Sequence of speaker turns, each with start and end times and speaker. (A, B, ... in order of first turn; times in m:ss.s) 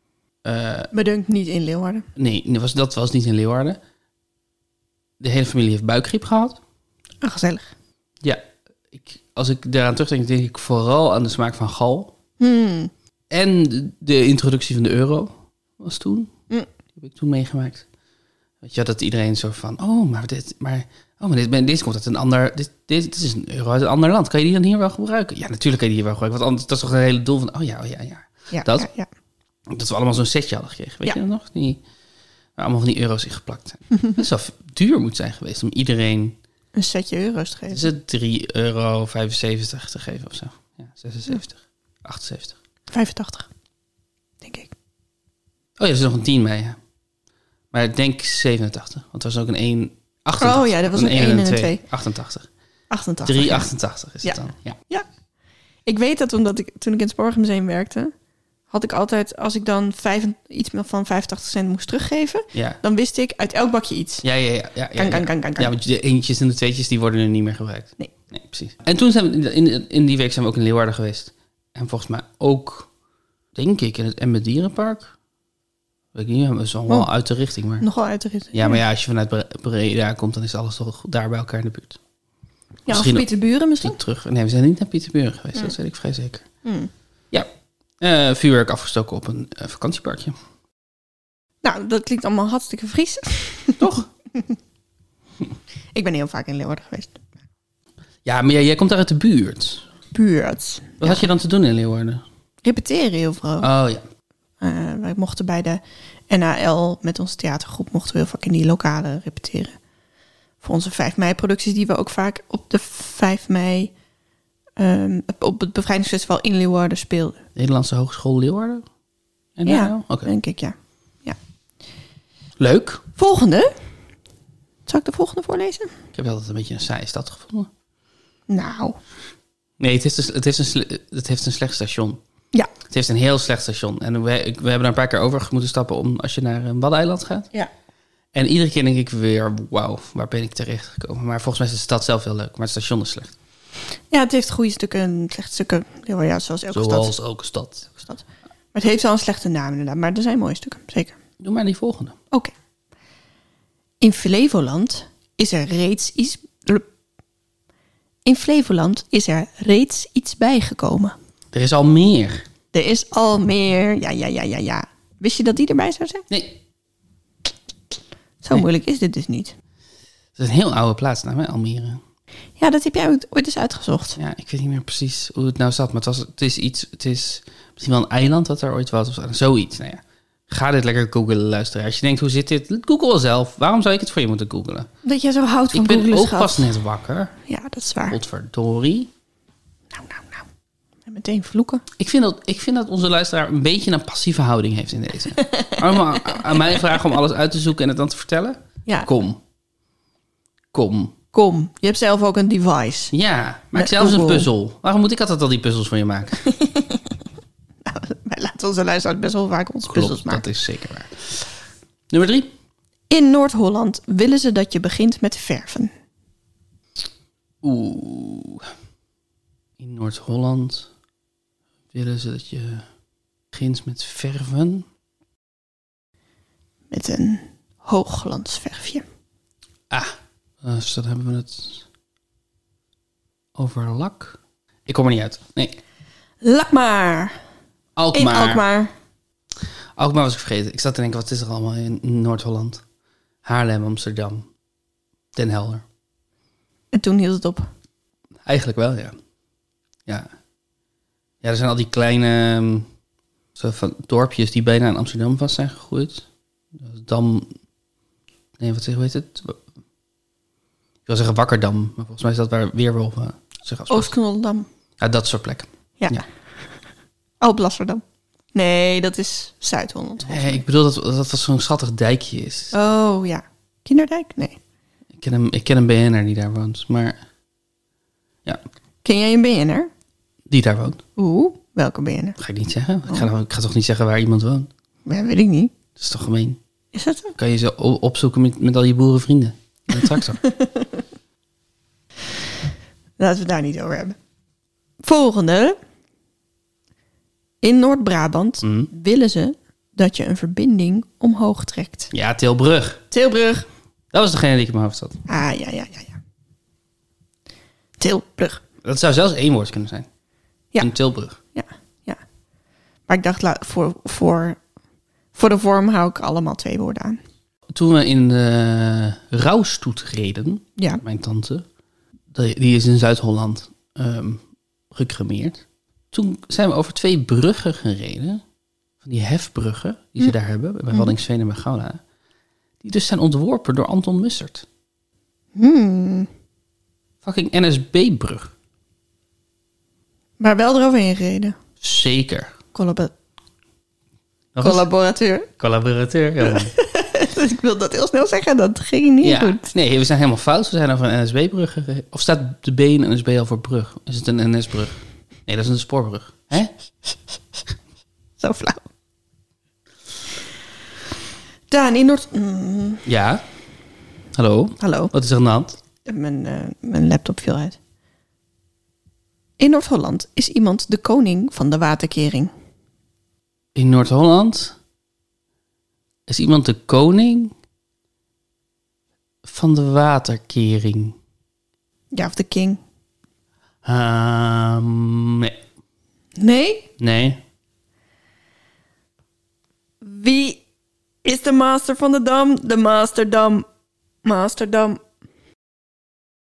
0:00.4-0:00.9 A
0:00.9-0:02.1 B
0:02.2-0:03.8 A
0:05.2-0:06.6 A
0:07.2-0:07.7 B
0:08.9-0:12.1 A
0:12.4-0:12.9 B
0:13.3-0:16.3 A
0:17.0-0:17.8 A
0:18.6-0:28.9 A
0:28.5-0:29.1 B
0:29.7-0:31.8 A
0:32.6-0:36.4 A
0:36.7-0:37.9 B
0:37.7-0:42.6 A
0:42.9-0:43.5 B
0:44.4-0:44.7 B
0:45.8-0:46.8 A
0:47.7-0:52.5 A
0:50.4-0:51.8 B
0:52.9-0:53.7 B
0:53.2-0:54.8 A
0:54.2-0:55.0 B
0:55.8-0:58.1 B
0:58.7-1:04.2 B
1:02.5-1:02.8 A
1:04.2-1:12.9 A
1:04.9-1:05.7 B
1:13.5-1:15.1 A
1:16.1-1:17.8 A
1:17.8-1:18.8 B
1:18.5-1:22.0 A
1:22.8-1:24.0 B
1:22.9-1:23.3 A
1:23.8-1:26.5 A
1:26.6-1:26.9 B
1:28.0-1:30.4 A
1:31.6-1:34.5 B
1:33.8-1:34.1 A
1:35.9-1:37.2 B
1:38.2-1:39.8 A
1:40.1-1:41.3 B
1:41.0-1:42.2 A
1:42.6-1:43.7 B
1:43.6-1:44.0 A
1:44.6-1:49.7 B
1:50.6-1:53.9 B
1:54.8-1:57.4 B
1:57.6-1:58.8 A
1:59.6-2:00.3 A
1:59.6-2:01.4 B
2:02.6-2:03.0 A
2:03.2-2:03.7 B
2:04.9-2:05.9 B
2:06.1-2:07.7 A
2:08.5-2:09.0 B
2:09.8-2:12.2 A
2:12.9-2:17.5 A
2:18.3-2:23.4 A
2:24.1-2:27.1 B
2:26.7-2:27.9 A
2:28.0-2:31.2 B
2:31.4-2:32.2 A
2:34.0-2:36.9 B
2:38.2-2:41.2 B
2:41.5-2:42.4 A
2:42.7-2:46.2 B
2:46.3-2:46.6 A
2:48.4-2:49.5 B
2:50.4-2:52.0 A
2:52.6-2:54.2 B
2:54.2-3:04.9 A
3:05.0-3:06.7 B
3:05.7-3:07.4 A
3:07.5-3:08.2 B
3:08.1-3:09.1 A
3:09.9-3:10.5 B
3:11.0-3:11.8 B
3:12.0-3:19.4 A
3:15.4-3:16.8 B
3:20.7-3:21.2 A
3:21.3-3:23.1 B
3:23.1-3:26.4 A
3:23.7-3:24.5 B
3:26.4-3:27.2 B
3:27.8-3:30.4 B
3:29.8-3:31.4 A
3:32.1-3:32.5 A
3:33.1-3:35.9 B
3:37.6-3:38.7 A
3:39.8-3:40.9 A
3:41.9-3:42.8 A
3:43.5-3:44.8 A
3:46.9-3:49.0 B
3:49.9-3:51.8 A
3:53.6-3:55.8 A
3:56.4-3:57.4 B
3:58.0-3:58.6 A
3:58.1-3:58.9 B
4:00.0-4:02.8 A
4:03.4-4:04.5 A
4:05.3-4:05.8 A
4:06.9-4:07.7 B
4:08.4-4:09.1 A
4:11.4-4:12.9 A
4:13.6-4:16.2 A
4:16.8-4:17.5 A
4:18.6-4:19.6 A
4:21.0-4:24.1 A
4:23.9-4:24.7 B
4:25.0-4:26.2 A
4:27.4-4:30.6 B
4:30.2-4:32.7 A
4:32.7-4:34.6 B
4:35.2-4:37.2 A
4:39.0-4:39.9 B
4:40.5-4:41.0 A
4:41.2-4:42.4 B
4:42.4-4:44.7 A
4:45.0-4:45.7 B
4:46.0-4:46.6 A
4:46.9-4:47.3 B
4:47.4-4:50.4 A
4:50.0-4:51.0 B
4:53.2-4:54.2 B
4:55.0-4:55.8 B
4:57.6-5:02.1 B
4:58.6-4:58.9 A
5:02.1-5:03.0 A
5:03.1-5:03.7 B
5:04.1-5:05.2 A
5:05.3-5:06.2 B
5:08.0-5:08.6 B
5:08.8-5:10.1 A
5:10.8-5:11.4 A
5:11.5-5:12.2 B
5:13.1-5:14.6 B
5:15.3-5:17.2 B
5:17.7-5:21.6 A
5:20.8-5:21.0 B
5:22.3-5:28.4 A
5:29.0-5:32.0 A
5:32.8-5:34.6 A
5:35.5-5:36.3 B
5:37.2-5:38.5 A
5:40.4-5:41.6 B
5:41.8-5:42.6 A
5:42.7-5:43.1 B
5:44.5-5:44.9 A
5:44.6-5:45.5 B
5:45.6-5:46.7 A
5:46.4-5:49.7 B
5:49.2-5:56.7 A
5:58.4-5:58.8 B
6:01.7-6:03.0 B
6:03.0-6:03.4 A
6:04.3-6:05.8 A
6:04.8-6:05.1 B
6:06.0-6:07.8 B
6:09.6-6:12.5 B
6:13.7-6:14.8 A
6:16.3-6:17.5 A
6:19.4-6:21.2 A
6:22.1-6:22.8 B
6:23.8-6:25.6 A
6:26.4-6:26.9 B
6:27.0-6:27.4 A
6:30.0-6:30.6 B
6:31.2-6:33.6 B
6:34.2-6:35.0 B